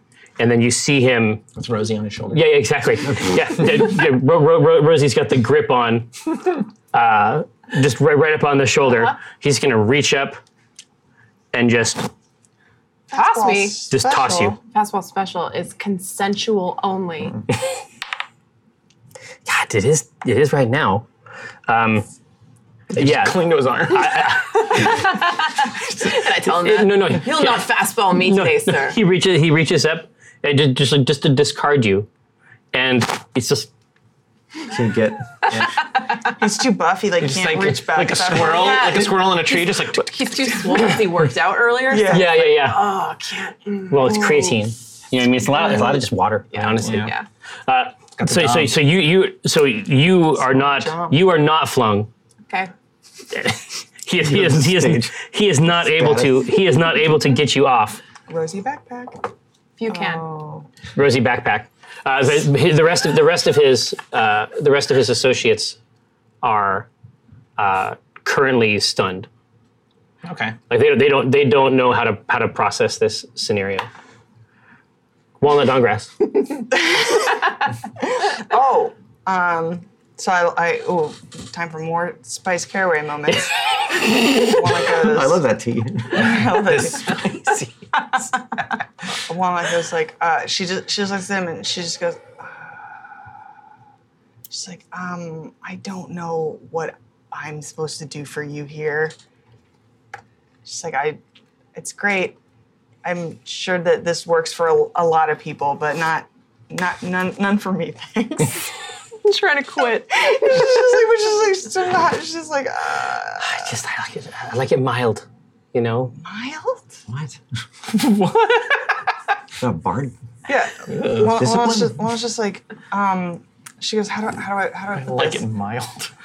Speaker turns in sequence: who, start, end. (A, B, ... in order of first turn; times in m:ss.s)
0:00.4-0:01.4 A
0:01.6-0:02.6 B
0:02.3-0:06.1 A
0:06.9-0:10.4 A
0:11.5-0:12.1 A
0:13.1-0:14.6 C
0:13.1-0:13.9 D
0:13.9-0:14.6 A
0:14.6-0:17.4 D
0:19.5-0:21.1 A
0:21.7-0:22.1 A
0:22.9-0:24.4 B
0:22.9-0:25.0 A
0:24.4-0:29.0 D
0:26.6-0:32.1 A
0:32.7-0:33.7 A
0:34.7-0:35.2 E
0:35.5-0:35.8 B
0:35.8-0:36.4 D
0:36.4-0:39.1 C
0:37.2-0:40.6 B
0:38.5-0:44.6 D
0:41.8-0:42.5 C
0:42.1-0:42.8 A
0:43.9-0:47.2 A
0:45.5-0:47.3 D
0:46.8-0:47.1 B
0:47.7-0:52.1 A
0:48.2-0:48.7 B
0:50.4-0:51.2 C
0:53.3-0:58.0 A
0:54.2-0:55.1 E
0:55.7-0:56.5 E
0:58.3-0:59.2 C
0:59.8-1:00.2 D
0:59.9-1:00.7 C
1:01.0-1:05.8 A
1:06.4-1:06.9 A
1:07.6-1:09.3 A
1:10.2-1:10.6 B
1:10.7-1:13.9 A
1:15.4-1:16.2 A
1:16.8-1:17.4 C
1:18.0-1:25.4 C
1:24.9-1:26.5 E
1:26.1-1:28.4 C
1:26.2-1:27.7 B
1:29.1-1:33.2 C
1:34.5-1:39.2 C
1:40.6-1:41.2 C
1:41.8-1:42.4 C
1:43.0-1:48.7 C
1:49.2-1:50.6 D
1:50.1-1:53.7 C
1:53.4-1:56.1 A
1:56.2-1:57.0 C
1:57.1-1:57.4 E
1:57.9-1:59.0 B
1:59.6-2:00.1 E
2:00.5-2:05.4 C
2:00.9-2:01.5 B
2:01.4-2:02.0 E
2:04.9-2:06.1 B